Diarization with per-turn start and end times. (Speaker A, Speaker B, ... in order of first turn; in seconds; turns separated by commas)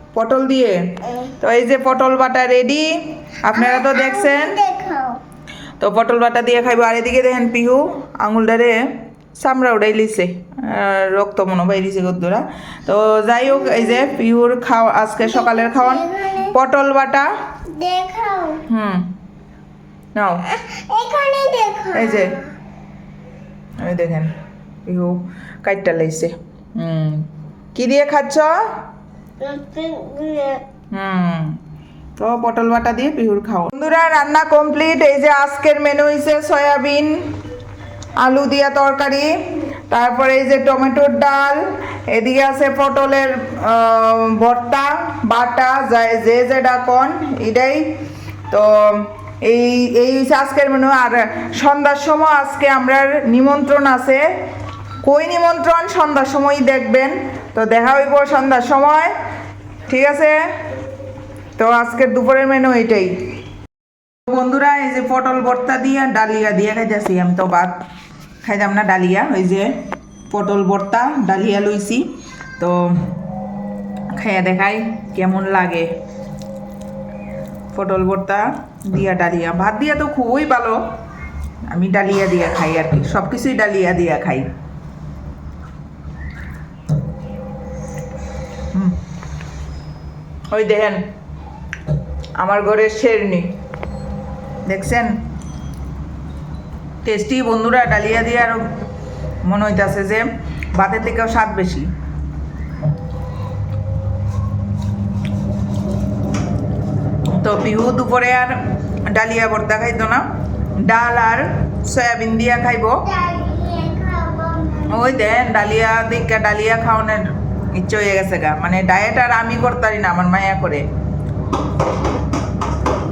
Speaker A: 0.1-4.6, Speaker B: 3.5-5.2, Speaker A: 5.8-17.5, Speaker B: 15.8-16.5, Speaker B: 17.7-18.6, Speaker A: 18.6-19.1, Speaker A: 20.1-20.5, Speaker B: 20.6-22.4, Speaker A: 21.9-22.4, Speaker A: 23.8-24.3, Speaker A: 24.9-28.8, Speaker B: 29.4-30.6, Speaker A: 30.9-31.6, Speaker A: 32.2-37.3, Speaker A: 38.2-48.0, Speaker A: 48.5-54.2, Speaker A: 55.0-59.1, Speaker A: 59.9-60.5, Speaker A: 61.6-63.2, Speaker A: 64.3-67.8, Speaker A: 68.4-69.7, Speaker A: 70.3-73.2, Speaker A: 74.1-75.9, Speaker A: 77.7-80.9, Speaker A: 81.7-84.5, Speaker A: 90.5-91.0, Speaker A: 92.4-93.5, Speaker A: 94.7-95.2, Speaker A: 97.0-98.6, Speaker A: 99.4-101.9, Speaker A: 107.3-110.2, Speaker A: 110.8-113.0, Speaker B: 113.0-115.1, Speaker A: 114.9-120.8